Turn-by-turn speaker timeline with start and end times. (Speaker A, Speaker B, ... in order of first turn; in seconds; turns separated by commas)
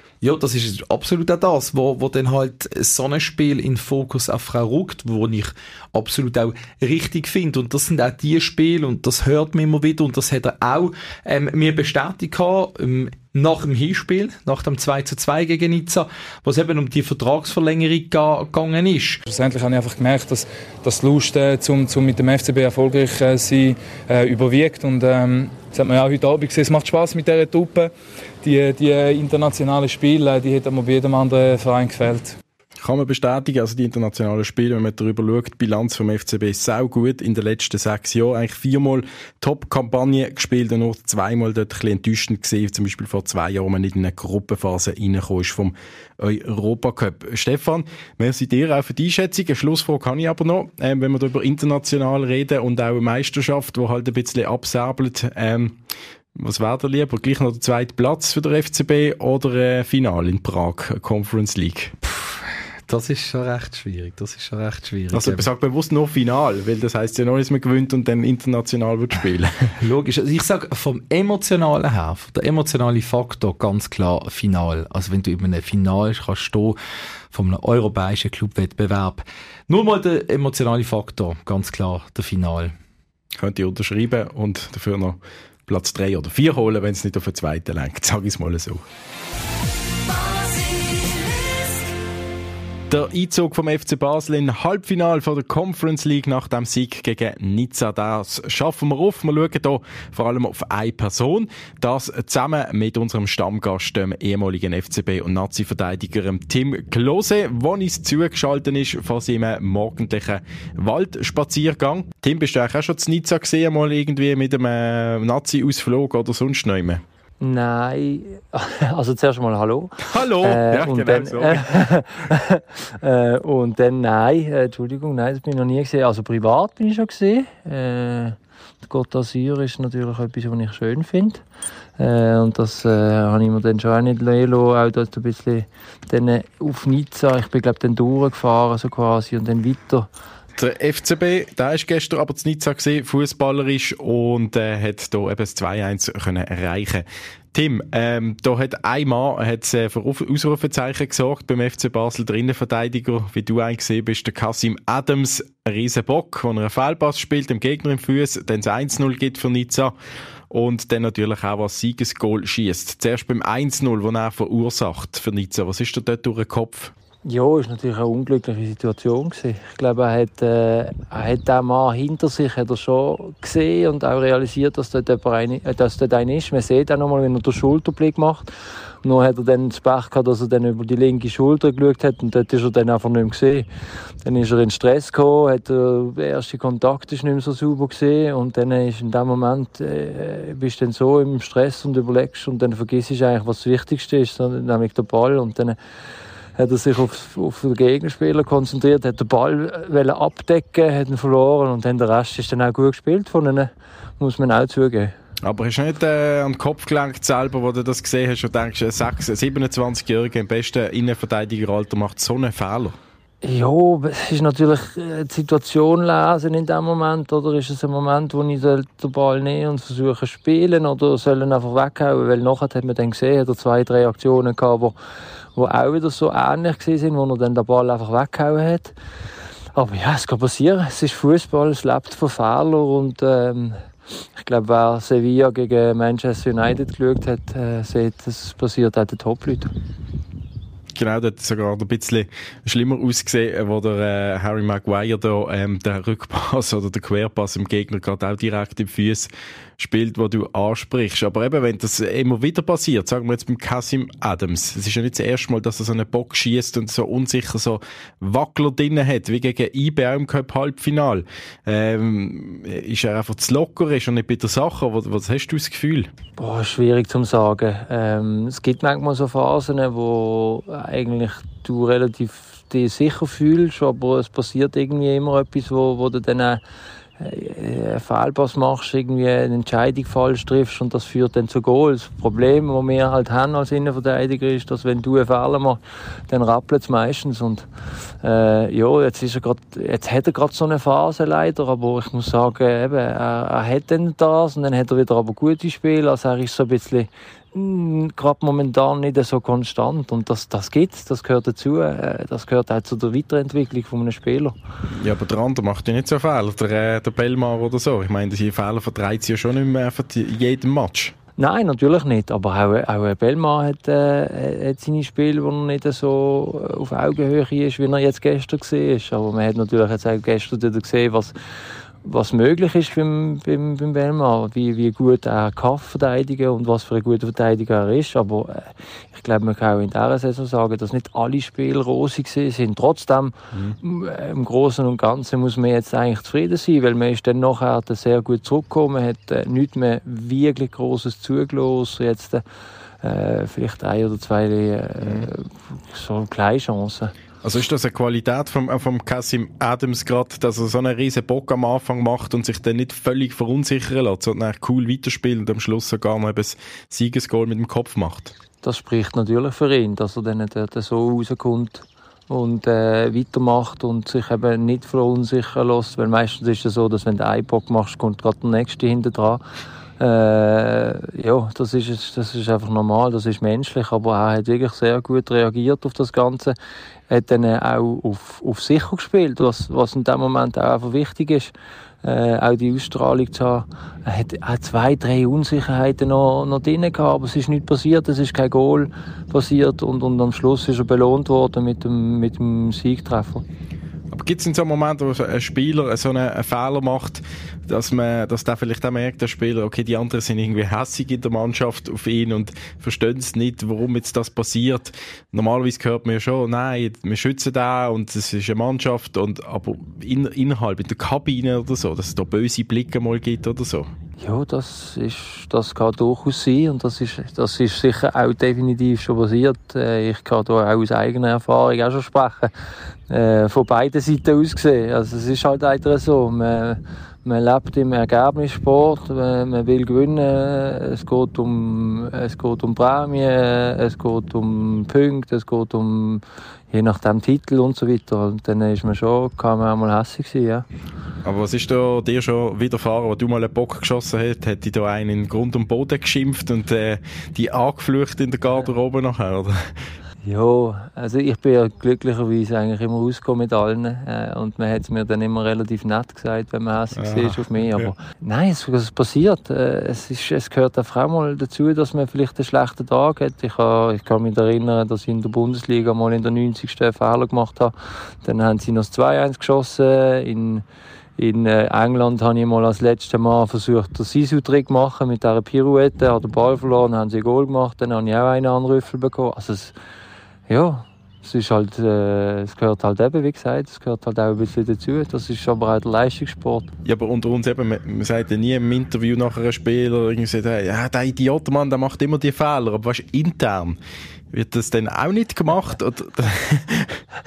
Speaker A: 0.2-19.2, Speaker B: 19.3-27.9, Speaker B: 28.4-32.4, Speaker C: 32.8-55.8, Speaker C: 56.3-61.9, Speaker A: 62.0-65.5, Speaker C: 65.1-69.7, Speaker A: 69.8-76.8, Speaker A: 77.3-82.7, Speaker C: 83.4-88.8, Speaker C: 92.9-117.0, Speaker D: 117.4-131.4, Speaker C: 120.0-121.8, Speaker D: 132.0-140.1, Speaker C: 140.6-159.9, Speaker C: 160.5-166.9, Speaker D: 167.2-178.5, Speaker D: 179.0-183.7, Speaker D: 184.2-195.8, Speaker D: 196.6-205.1, Speaker C: 205.4-213.0, Speaker D: 213.4-224.9, Speaker D: 225.5-228.9, Speaker D: 229.7-233.8, Speaker D: 234.3-239.7, Speaker C: 240.9-266.1, Speaker D: 266.4-276.6, Speaker D: 277.2-287.7, Speaker D: 288.2-304.6, Speaker C: 304.9-311.1, Speaker D: 311.4-321.3, Speaker D: 322.0-342.4, Speaker C: 333.5-333.8, Speaker D: 343.0-347.1, Speaker C: 345.0-345.3, Speaker C: 347.4-358.3, Speaker D: 358.6-369.4, Speaker D: 370.0-376.5, Speaker D: 377.1-381.5, Speaker D: 382.0-393.4, Speaker C: 394.1-413.9, Speaker D: 414.2-422.5, Speaker D: 423.1-440.6, Speaker C: 441.2-449.8, Speaker D: 450.2-470.6, Speaker C: 456.9-457.9, Speaker D: 471.2-479.7, Speaker D: 480.5-486.7, Speaker C: 486.8-493.8, Speaker C: 494.3-497.0